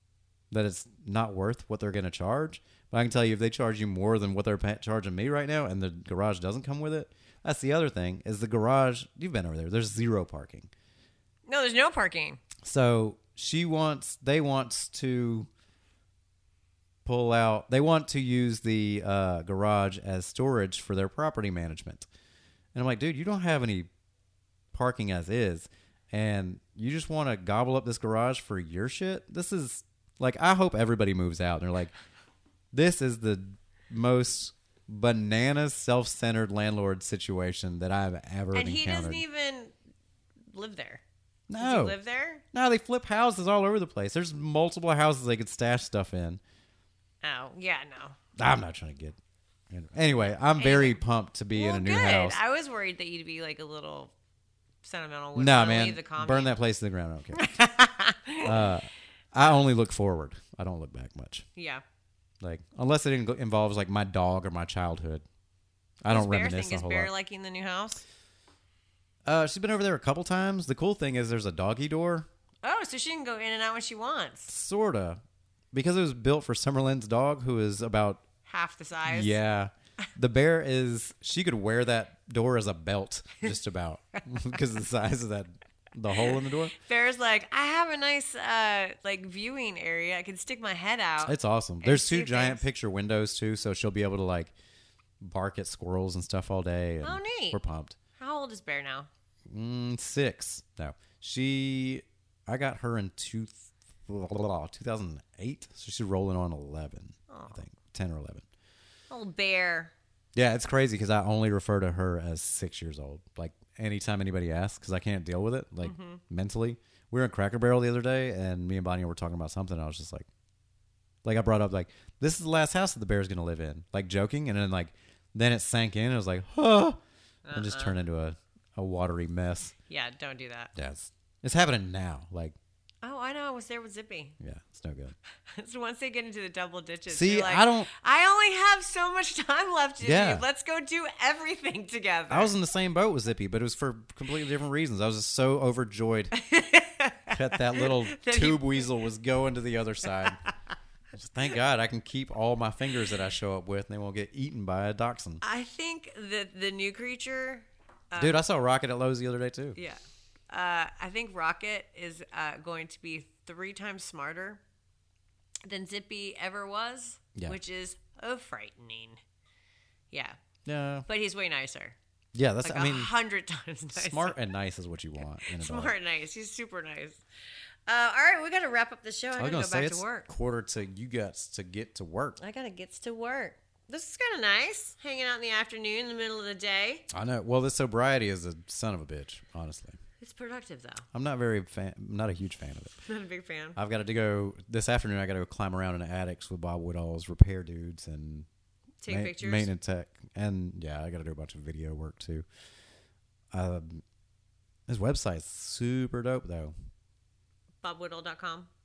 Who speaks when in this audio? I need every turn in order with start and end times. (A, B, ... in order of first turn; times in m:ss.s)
0:00.5-0:10.7 A
0:11.4-0:12.4 B
0:12.6-0:15.5 A
0:17.0-0:22.1 A
0:22.7-0:23.9 A
0:24.7-0:31.9 A
0:32.7-0:39.2 A
0:38.5-0:39.7 B
0:40.5-0:41.0 B
0:41.5-0:42.0 A
0:41.6-0:42.4 B
0:42.5-0:46.4 A
0:47.2-0:48.2 B
0:48.4-0:49.2 A
0:49.7-0:52.4 A
0:50.6-0:51.0 B
0:51.5-0:54.1 B
0:54.8-0:56.5 B
0:55.4-0:57.5 A
0:57.3-0:58.5 B
0:58.4-1:01.5 A
1:01.6-1:01.8 B
1:02.4-1:05.2 A
1:06.0-1:07.1 A
1:06.1-1:08.0 B
1:09.2-1:12.3 A
1:12.6-1:14.5 B
1:14.5-1:15.2 A
1:15.7-1:18.2 A
1:18.4-1:19.4 B
1:19.0-1:26.7 A
1:26.2-1:32.6 B
1:31.2-1:34.5 A
1:35.2-1:38.0 A
1:37.0-1:37.6 B
1:38.1-1:39.1 B
1:39.5-1:48.4 A
1:47.3-1:47.6 B
1:49.1-1:49.9 B
1:50.3-2:00.3 A
1:55.8-1:56.2 B
2:01.2-2:07.0 A
2:07.4-2:08.0 B
2:07.5-2:09.7 A
2:09.9-2:10.7 B
2:10.8-2:12.6 A
2:13.0-2:14.4 B
2:14.4-2:15.2 A
2:15.5-2:22.5 B
2:17.1-2:17.9 A
2:20.0-2:20.4 A
2:22.3-2:26.3 A
2:26.3-2:28.9 B
2:27.3-2:30.4 A
2:31.1-2:35.4 A
2:35.4-2:38.4 B
2:38.2-2:39.8 A
2:39.7-2:44.6 B
2:45.6-2:49.2 B
2:50.1-2:50.4 B
2:50.6-2:51.0 A
2:51.1-2:52.0 B
2:52.3-2:53.1 A
2:52.6-2:54.4 B
2:53.9-2:55.9 A
2:55.4-2:57.2 B
2:57.9-3:00.3 B
2:59.4-3:02.4 A
3:02.4-3:07.0 B
3:07.1-3:10.0 A
3:10.2-3:11.0 B
3:11.1-3:12.9 A
3:13.0-3:13.8 B
3:13.8-3:18.5 A
3:19.0-3:19.7 B
3:19.1-3:22.4 A
3:23.5-3:24.0 A
3:24.9-3:26.7 A
3:27.8-3:28.7 B